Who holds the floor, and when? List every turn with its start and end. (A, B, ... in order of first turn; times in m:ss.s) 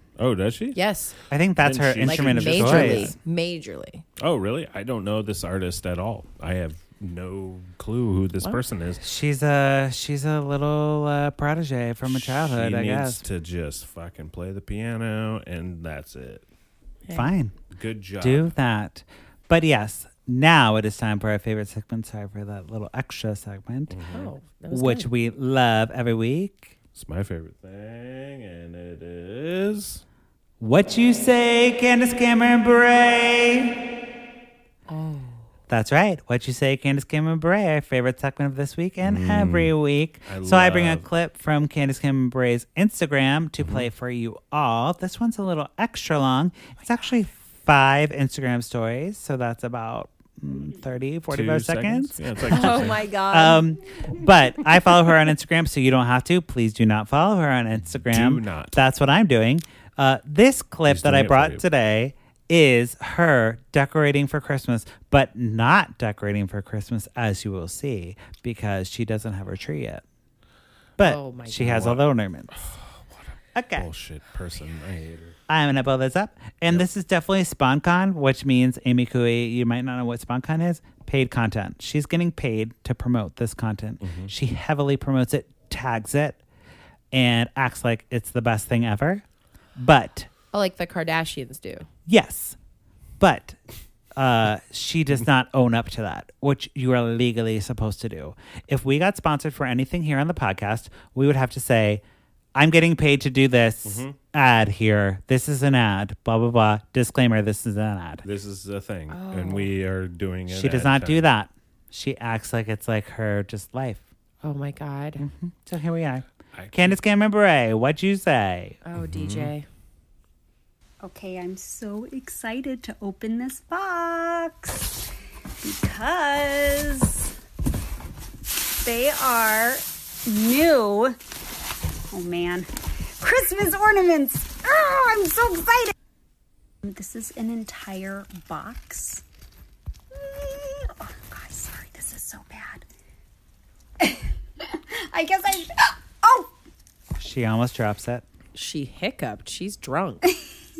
0:00.2-0:00.8 A
0:00.7-0:01.1 B
0:01.3-0:03.1 C
0:01.6-0:03.1 A
0:02.0-0:04.0 B
0:04.2-0:09.0 A
0:09.0-0:13.2 C
0:12.0-0:16.4 A
0:17.0-0:17.3 B
0:17.1-0:17.5 C
0:17.7-0:18.5 A
0:18.2-0:24.0 C
0:23.9-0:24.3 A
0:24.1-0:25.1 B
0:24.7-0:26.7 C
0:26.9-0:30.0 A
0:30.6-0:33.8 C
0:34.9-0:35.4 B
0:35.7-1:10.0 C
0:39.0-0:39.7 A
0:40.2-0:41.0 A
0:43.6-0:43.9 A
0:51.3-0:53.0 A
0:52.5-0:53.7 B
0:57.8-0:58.8 A
1:00.9-1:01.6 A
1:11.0-1:12.6 C
1:11.0-1:11.7 B
1:11.6-1:15.4 A
1:13.5-1:13.9 C
1:15.5-1:26.4 C
1:24.0-1:24.3 A
1:27.1-1:29.2 C
1:29.8-1:30.3 C
1:30.5-1:31.8 B
1:32.1-1:32.6 C
1:33.2-1:33.6 C
1:34.1-1:42.0 C
1:42.5-1:48.2 C
1:43.8-1:44.2 A
1:48.2-1:51.3 A
1:49.1-1:49.7 B
1:50.5-1:54.0 C
1:54.4-1:55.2 B
1:55.2-1:58.8 C
1:56.5-1:57.0 A
1:58.8-1:59.6 B
1:59.0-1:59.5 A
2:01.0-2:05.0 D
2:05.6-2:07.3 D
2:08.7-2:11.2 D
2:12.1-2:15.9 D
2:16.8-2:19.2 D
2:20.1-2:22.8 D
2:24.0-2:26.5 D
2:27.2-2:28.2 C
2:28.5-2:30.2 B